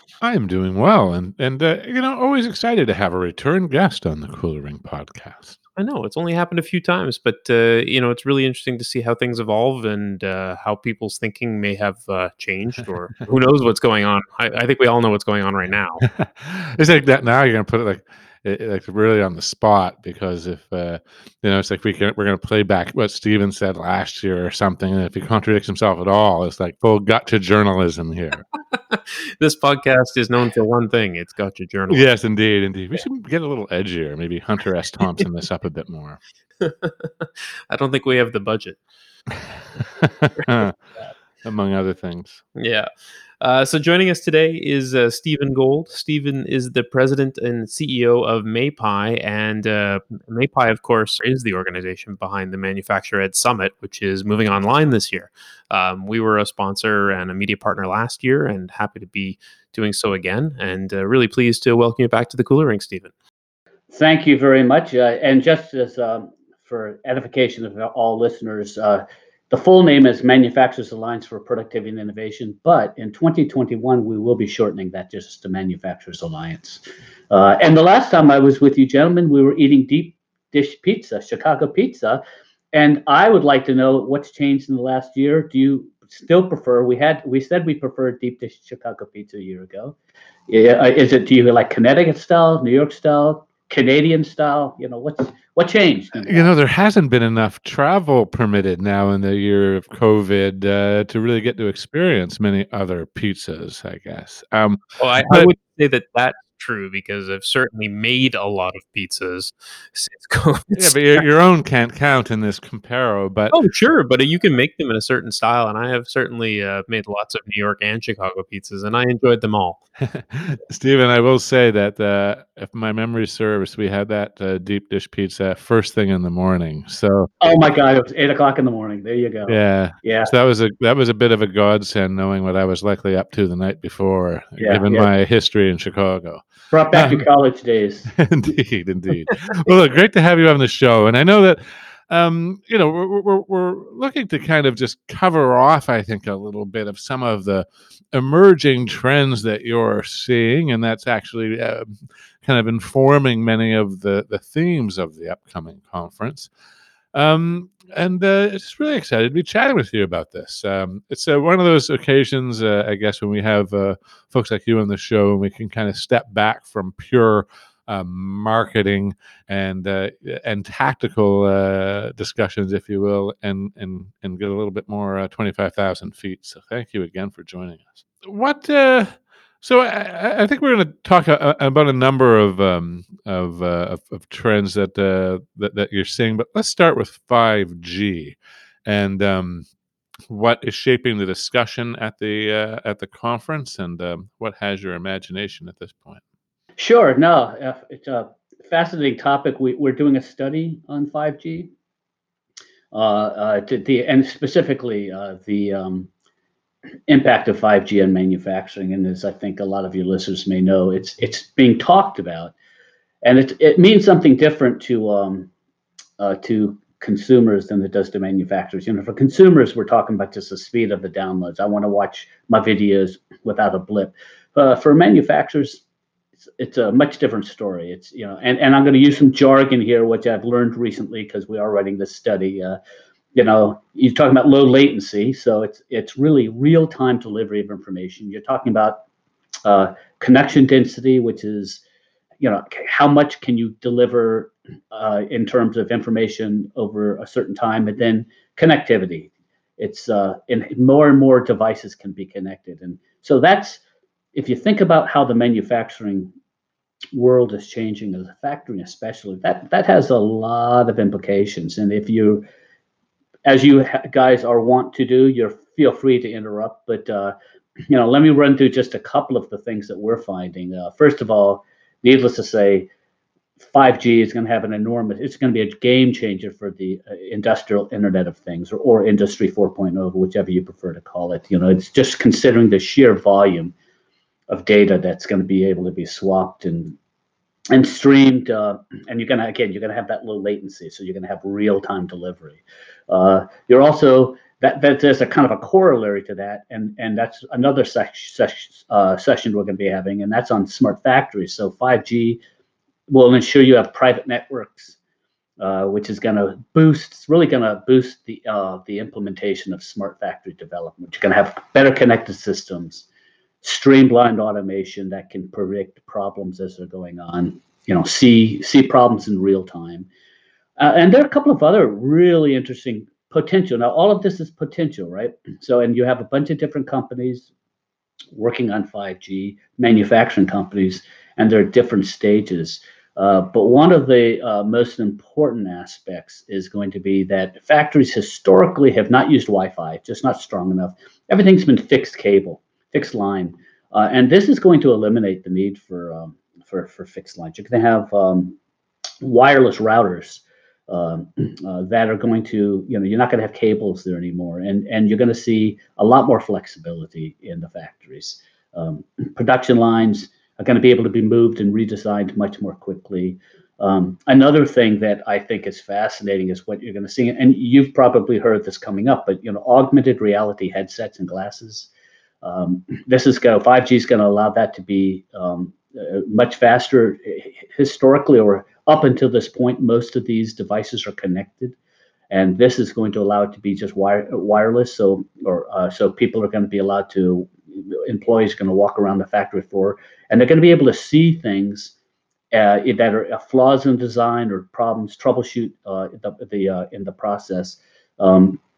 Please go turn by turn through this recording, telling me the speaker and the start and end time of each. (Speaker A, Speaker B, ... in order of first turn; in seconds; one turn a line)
Speaker A: 0.2-5.6
Speaker B: 5.8-16.1
Speaker A: 16.0-28.4
Speaker B: 28.7-32.1
Speaker A: 31.9-36.2
Speaker B: 36.6-38.8
Speaker A: 40.0-40.8
Speaker A: 41.4-42.4
Speaker B: 42.5-63.1
Speaker C: 63.9-82.2
Speaker C: 82.7-90.0
Speaker C: 90.5-96.5
Speaker A: 96.2-105.5
Speaker B: 105.0-111.2
Speaker A: 110.7-113.6
Speaker B: 113.5-119.8
Speaker A: 120.0-127.3
Speaker C: 127.4-130.3
Speaker A: 129.5-137.2
Speaker C: 134.6-135.1
Speaker C: 136.7-138.1
Speaker A: 138.1-156.5
Speaker A: 157.1-189.7
Speaker A: 190.3-196.2
Speaker C: 196.8-201.7
Speaker C: 202.9-206.1
Speaker C: 207.1-212.5
Speaker C: 213.2-215.5
Speaker C: 216.2-225.8
Speaker C: 226.6-232.8
Speaker C: 233.3-239.0
Speaker C: 239.7-241.8
Speaker C: 242.4-253.8
Speaker C: 254.3-256.3
Speaker C: 257.1-262.4
Speaker C: 263.4-267.3
Speaker C: 267.9-272.9
Speaker C: 273.6-283.7
Speaker C: 284.5-287.0
Speaker C: 287.7-302.4
Speaker C: 303.1-305.0
Speaker C: 305.6-313.1
Speaker C: 313.6-320.1
Speaker C: 320.8-327.5
Speaker C: 328.4-348.6
Speaker C: 349.2-371.9
Speaker C: 372.4-381.8
Speaker C: 382.3-391.9
Speaker C: 392.5-398.6